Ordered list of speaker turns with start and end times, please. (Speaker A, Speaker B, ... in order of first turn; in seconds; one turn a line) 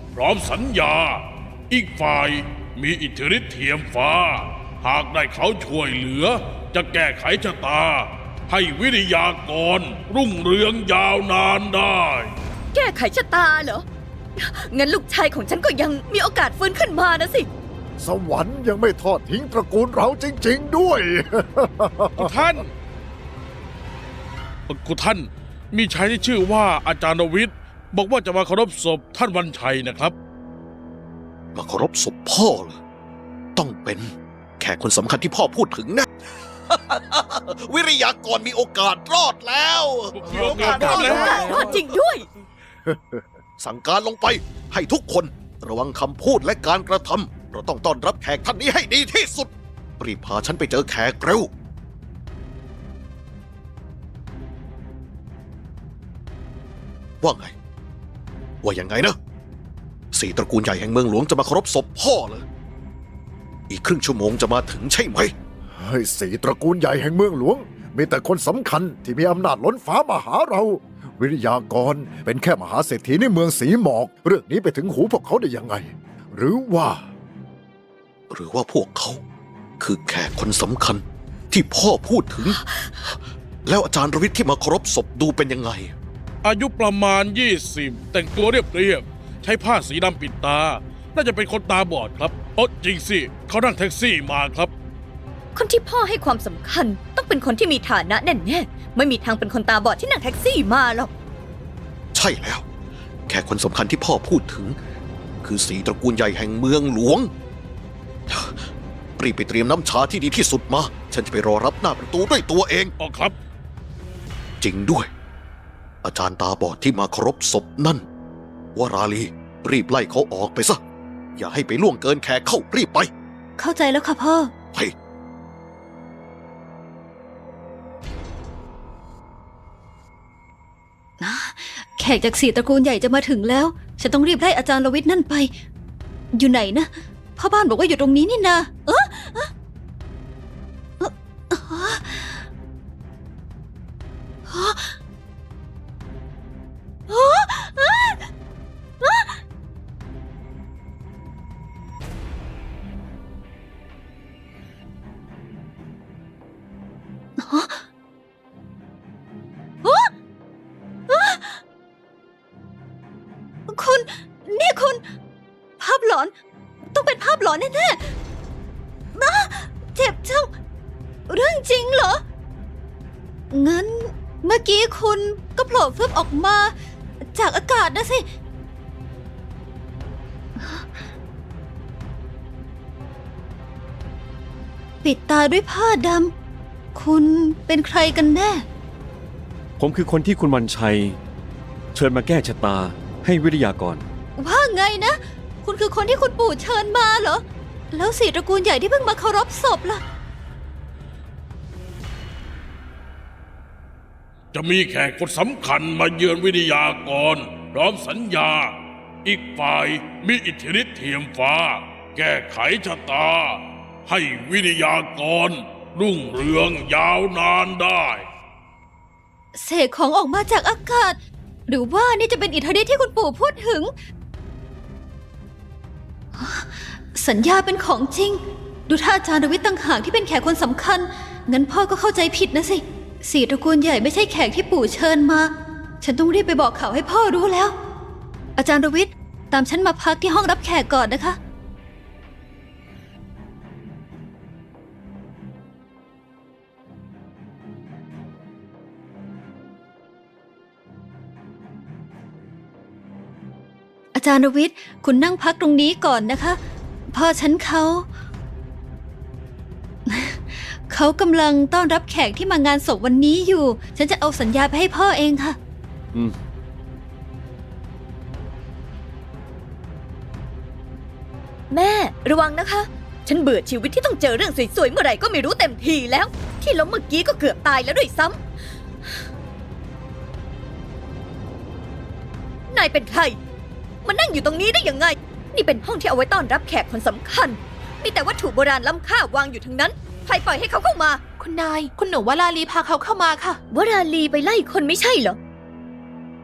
Speaker A: 0.1-12.3
Speaker B: 12.7-13.8
Speaker B: 14.4-17.5
Speaker C: 18.0-22.4
Speaker A: 22.2-22.7
Speaker A: 24.7-30.1
Speaker D: 31.6-32.8
Speaker D: 33.6-36.1
Speaker D: 36.7-41.0
Speaker A: 40.1-41.7
Speaker C: 40.3-41.9
Speaker B: 40.9-42.3
Speaker C: 42.9-43.2
Speaker D: 43.6-51.5
Speaker D: 57.2-57.5
Speaker D: 58.6-59.2
Speaker D: 60.1-62.4
Speaker D: 63.7-65.3
Speaker C: 65.7-77.0
Speaker D: 78.3-79.2
Speaker D: 79.8-82.6
Speaker D: 83.7-85.9
Speaker A: 86.4-94.7
Speaker B: 95.5-101.1
Speaker D: 102.1-102.6
Speaker D: 103.3-104.8
Speaker D: 105.4-107.3
Speaker D: 108.3-108.7
Speaker D: 109.2-112.9
Speaker A: 113.0-113.3
Speaker D: 114.6-115.1
Speaker D: 116.0-118.0
Speaker D: 118.8-120.8
Speaker D: 121.3-123.1
Speaker E: 123.6-124.5
Speaker E: 131.2-135.5
Speaker E: 136.3-139.5
Speaker E: 141.0-142.4
Speaker E: 144.5-144.9
Speaker E: 147.1-148.2
Speaker E: 149.0-149.4
Speaker E: 157.4-157.8
Speaker E: 159.8-160.1
Speaker E: 161.1-161.6
Speaker E: 163.7-165.0
Speaker E: 165.8-166.3
Speaker E: 166.9-168.1
Speaker E: 169.2-170.5
Speaker E: 171.3-172.2
Speaker E: 173.5-178.2
Speaker E: 180.6-181.0
Speaker E: 185.0-186.3
Speaker E: 186.9-188.7
Speaker F: 189.8-191.2
Speaker F: 191.9-194.0
Speaker E: 194.4-200.0
Speaker A: 204.5-218.3
Speaker E: 219.6-223.9
Speaker E: 226.3-237.7
Speaker E: 238.6-241.4
Speaker E: 254.1-258.1
Speaker E: 260.1-265.6
Speaker B: 271.7-278.4
Speaker B: 282.7-283.4
Speaker B: 284.0-291.2
Speaker G: 291.4-293.6
Speaker B: 293.7-295.4